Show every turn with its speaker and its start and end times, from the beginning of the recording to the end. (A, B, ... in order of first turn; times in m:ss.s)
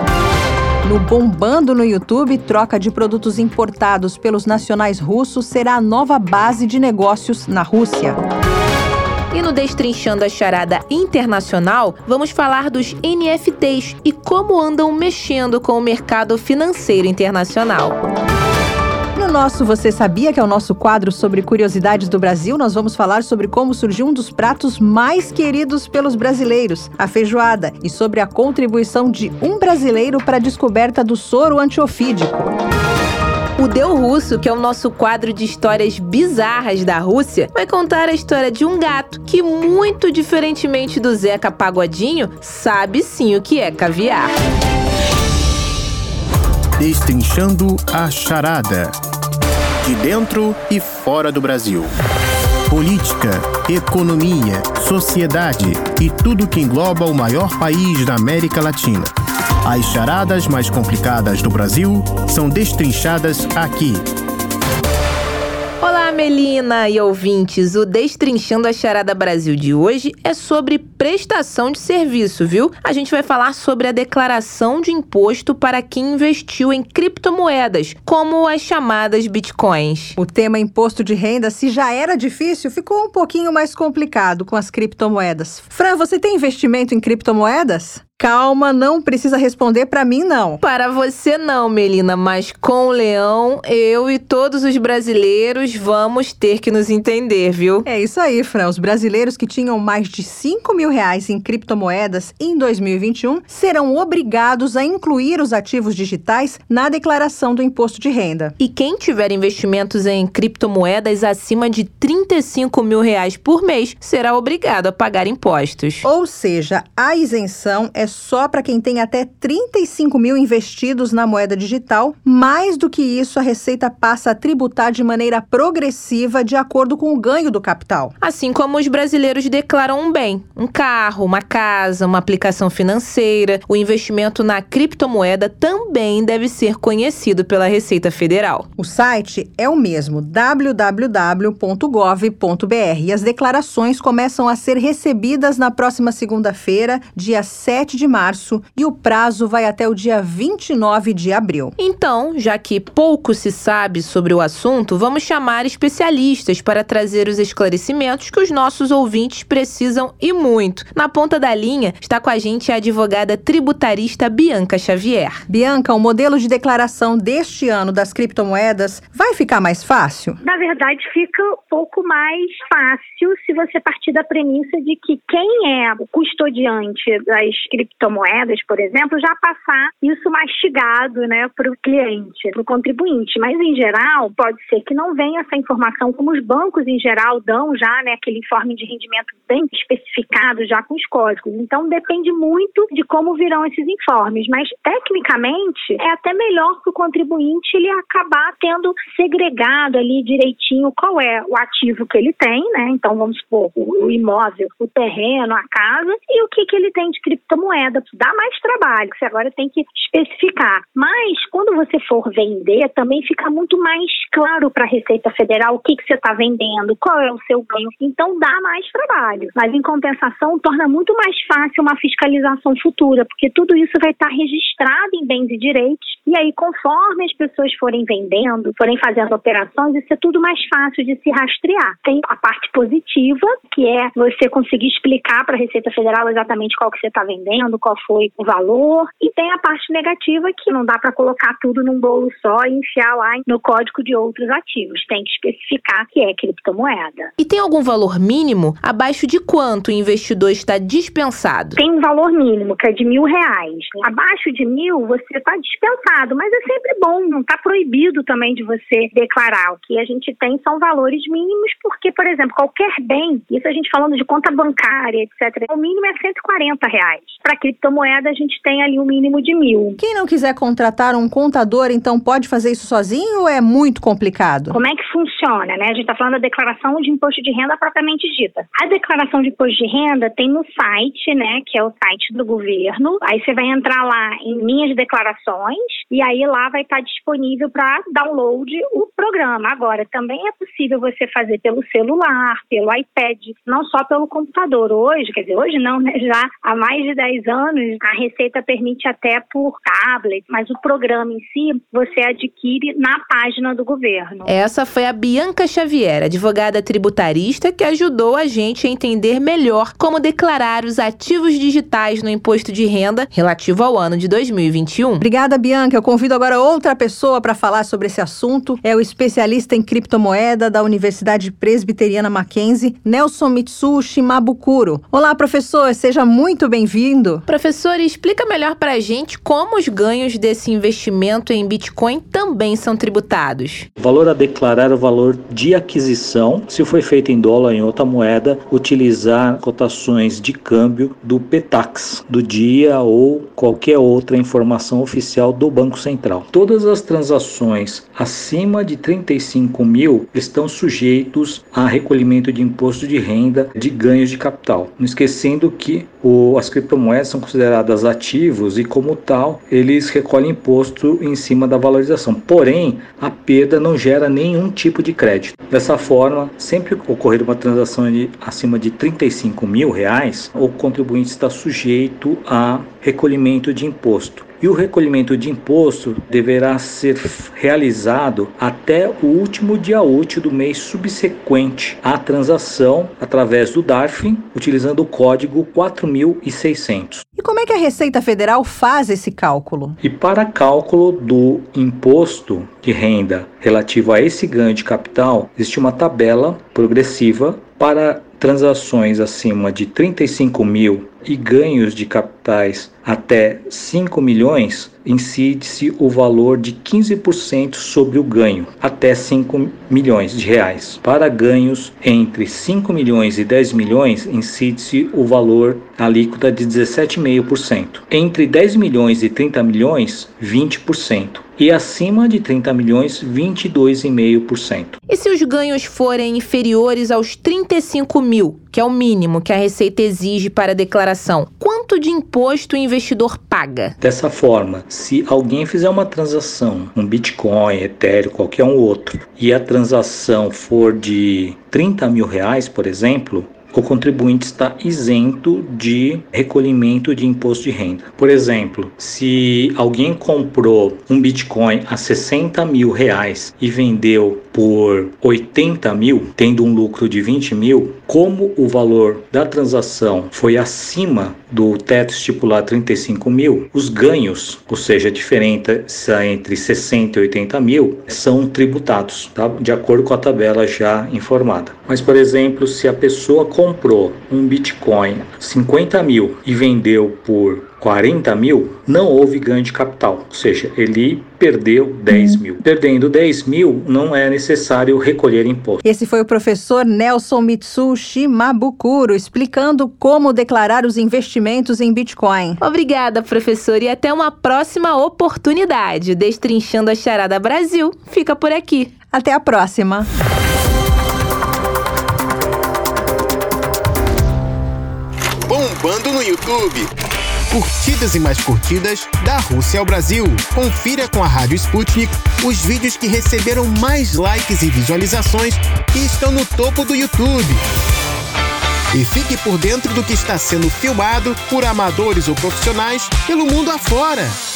0:00.8-0:08.2 A
0:09.3-0:18.0 B
0:19.1-0:32.5 A
0:33.6-0:44.3 B
0:46.8-0:48.9 C
0:49.8-0:51.9 C
0:52.7-0:59.1 C
0:59.6-1:04.0 C
1:05.8-1:20.2 B
1:20.2-1:30.6 A
1:30.6-1:37.8 B
1:37.8-1:48.5 A
1:48.6-1:56.0 B
1:56.0-2:08.1 A
2:08.2-2:18.7 B
2:18.8-2:31.8 A
2:31.8-2:45.4 B
2:45.5-2:50.4 A
2:50.4-4:07.3 D
4:07.4-4:11.8 B
4:11.8-4:30.0 D
4:30.0-4:34.8 A
4:34.7-5:04.5 D
5:04.5-5:15.2 B
5:15.2-5:27.4 A
5:27.5-5:33.9 B
5:34.0-6:27.2 E
6:27.4-6:30.0 A
6:30.0-7:05.0 E
7:05.1-7:14.0 B
7:14.0-8:05.8 E
8:05.8-8:12.6 A
8:12.6-8:18.9 B
8:19.1-8:20.1 A
8:25.4-8:26.9 C
8:27.5-8:37.6 C
8:38.9-8:44.4 C